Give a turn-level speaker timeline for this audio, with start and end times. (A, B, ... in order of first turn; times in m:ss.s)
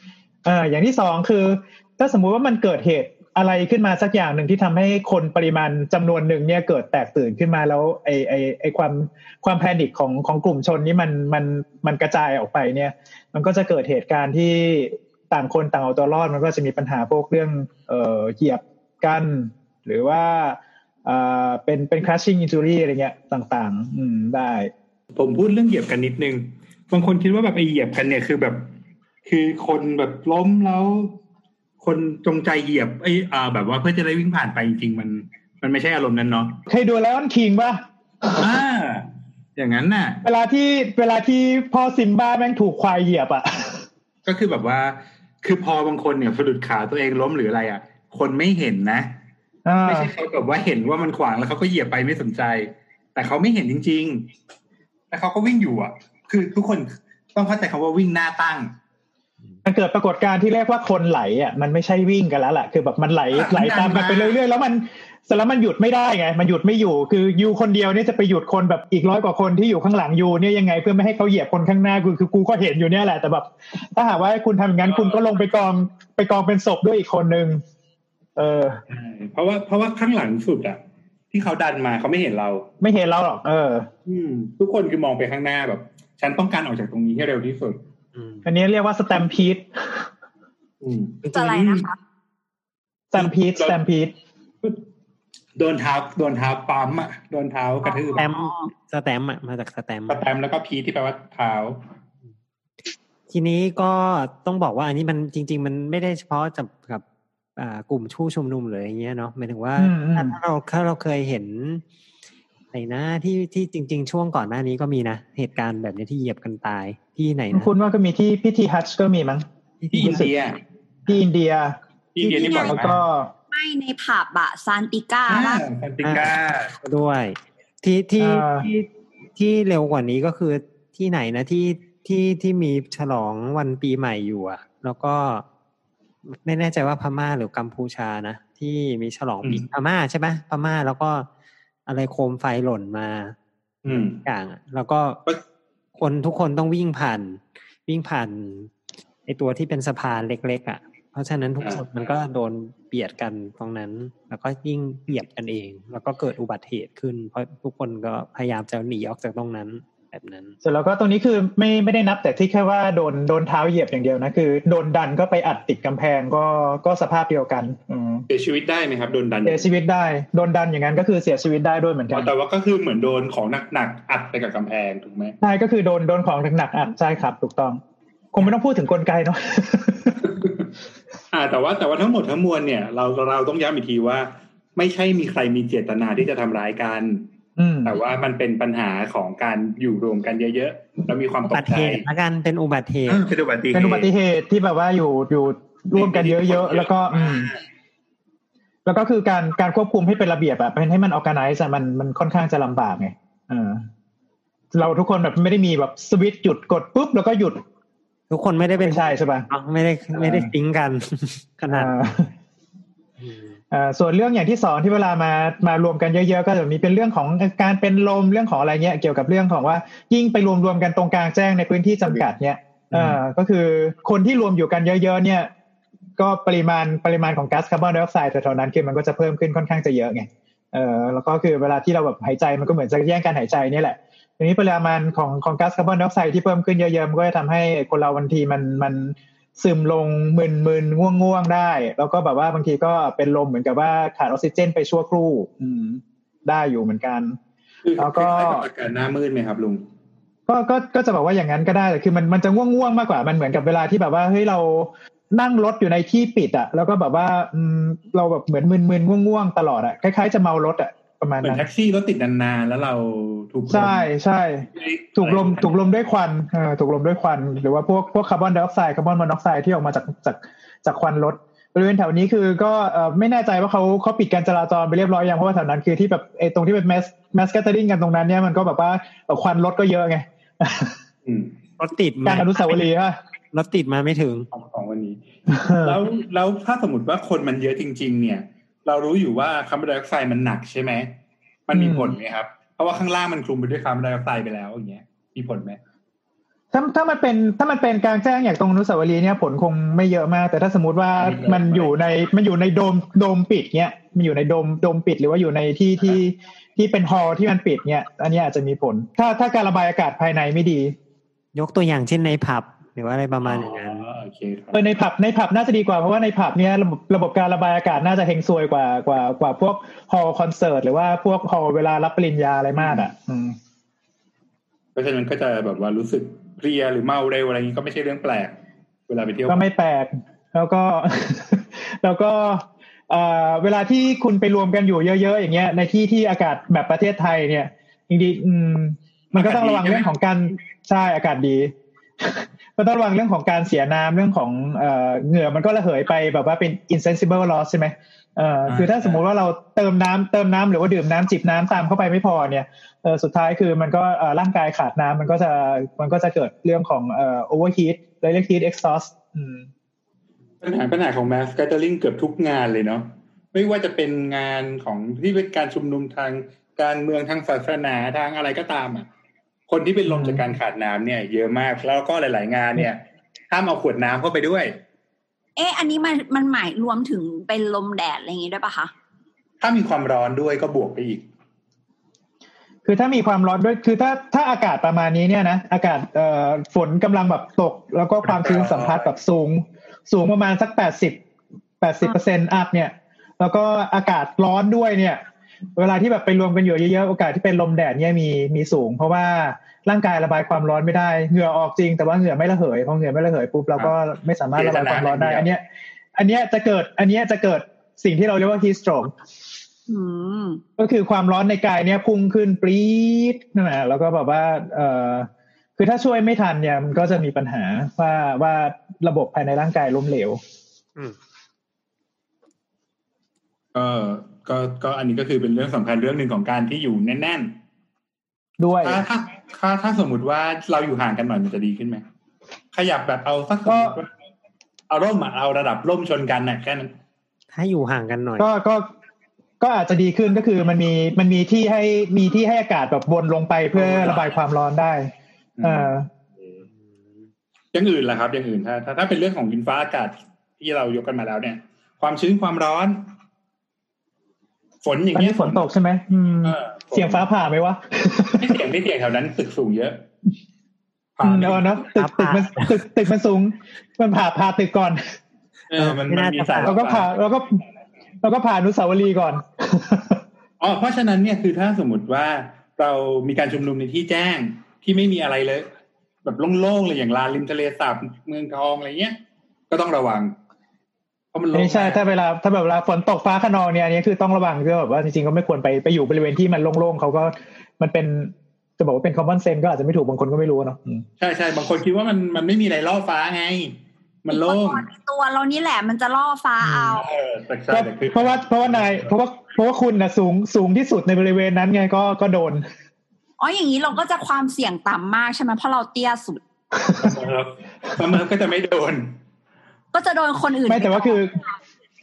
0:00.4-0:24.7 A
0:25.2-0:28.7 B
0:29.2-0:31.2 B
0:31.8-0:36.6 B
0:36.7-0:38.5 A
0:38.3-0:40.2 B
0:40.2-0:43.8 A
0:44.3-0:49.2 B
0:49.6-0:50.1 A
0:49.9-0:54.3 B
0:55.1-0:58.8 B
0:59.6-1:17.6 A
1:03.3-1:04.4 B
1:14.9-1:15.3 B
1:18.4-1:18.8 A
1:18.9-1:20.8 B
1:21.3-1:22.7 B
1:22.8-1:23.9 A
1:24.1-1:27.8 B
1:28.2-1:28.4 C
1:28.4-1:30.1 A
1:30.8-1:31.8 B
1:31.3-1:32.0 D
1:33.1-1:34.1 A
1:33.2-1:33.8 B
1:35.6-1:38.2 B
1:37.8-1:38.7 D
1:38.2-1:40.2 C
1:40.1-1:41.9 B
1:43.3-1:47.0 C
1:47.6-1:51.8 C
1:49.8-1:50.4 A
1:52.7-1:57.7 C
1:57.5-2:00.3 A
1:59.9-2:00.6 B
2:01.1-2:01.8 A
2:02.2-2:03.0 B
2:02.2-2:02.8 D
2:02.3-2:03.3 A
2:03.5-2:05.6 D
2:05.3-2:06.7 B
2:06.0-2:15.4 C
2:08.2-2:08.7 A
2:16.3-2:21.3 C
2:21.9-2:23.4 C
2:23.8-2:24.2 B
2:23.9-2:25.2 C
2:26.0-2:28.7 C
2:29.3-2:40.6 C
2:40.6-2:48.3 A
2:48.3-2:49.7 B
2:49.4-2:52.3 A
2:52.1-2:55.4 B
2:55.4-2:57.8 A
2:58.3-3:00.3 A
3:01.3-3:07.3 B
3:07.6-3:08.0 A
3:07.8-3:12.0 B
3:11.5-3:13.2 C
3:13.1-3:14.1 B
3:13.7-3:17.5 A
3:16.0-3:17.6 B
3:18.9-3:23.9 A
3:24.7-3:27.6 A
3:28.3-3:32.0 C
3:28.8-3:29.5 A
3:30.2-3:30.5 A
3:31.7-3:32.3 A
3:33.2-3:33.5 C
3:33.7-3:45.5 A
3:46.2-4:07.4 A
4:07.8-4:09.9 B
4:08.0-4:08.6 A
4:10.5-4:21.7 A
4:21.4-4:24.1 B
4:23.7-4:41.0 A
4:24.8-4:25.9 B
4:41.2-4:41.5 B
4:41.8-4:42.8 C
4:42.2-4:43.2 A
4:43.5-4:44.5 C
4:44.5-4:45.2 B
4:45.5-4:46.0 A
4:45.8-4:51.2 B
4:51.7-4:55.8 B
4:51.7-4:52.2 A
4:56.7-5:11.0 A
5:01.2-5:01.9 B
5:11.6-5:14.0 C
5:13.4-5:14.8 B
5:14.7-5:23.6 A
5:22.8-5:23.0 B
5:25.0-5:28.6 B
5:29.1-5:29.6 B
5:29.5-5:59.7 A
5:39.3-5:40.1 B
5:48.7-5:49.2 B
6:00.6-6:09.1 B
6:09.7-6:14.8 B
6:10.1-6:10.4 A
6:15.6-6:18.9 D
6:19.6-6:21.2 B
6:22.8-6:31.2 A
6:28.2-6:29.2 B
6:31.8-6:35.2 A
6:35.8-6:45.6 A
6:44.6-6:45.5 B
6:46.2-6:49.1 A
6:49.9-6:50.6 D
6:50.8-7:00.4 A
7:03.8-7:07.6 B
7:08.6-7:09.0 A
7:08.8-7:12.0 B
7:12.7-7:14.1 B
7:13.7-7:14.0 A
7:14.9-7:16.9 B
7:17.5-7:18.5 C
7:18.4-7:18.9 A
7:19.6-7:25.1 A
7:23.8-7:24.4 B
7:25.6-7:26.6 B
7:25.6-7:26.1 A
7:27.7-7:33.1 B
7:34.8-7:35.7 B
7:35.1-7:38.6 A
7:36.4-7:37.3 B
7:38.4-7:40.1 B
7:41.2-7:41.9 B
7:41.2-7:45.0 A
7:42.0-7:42.8 C
7:45.7-7:47.2 B
7:45.8-7:46.8 C
7:46.6-7:47.6 A
7:48.2-7:50.2 A
7:50.6-7:55.7 B
7:56.2-7:59.2 B
7:59.7-8:00.4 B
8:01.3-8:02.0 B
8:01.5-8:11.0 A
8:11.2-8:14.8 B
8:14.3-8:17.1 D
8:17.0-8:19.1 B
8:17.7-8:22.6 A
8:23.4-8:26.4 D
8:26.8-8:27.1 A
8:27.0-8:29.2 B
8:29.9-8:31.2 D
8:30.7-8:31.4 A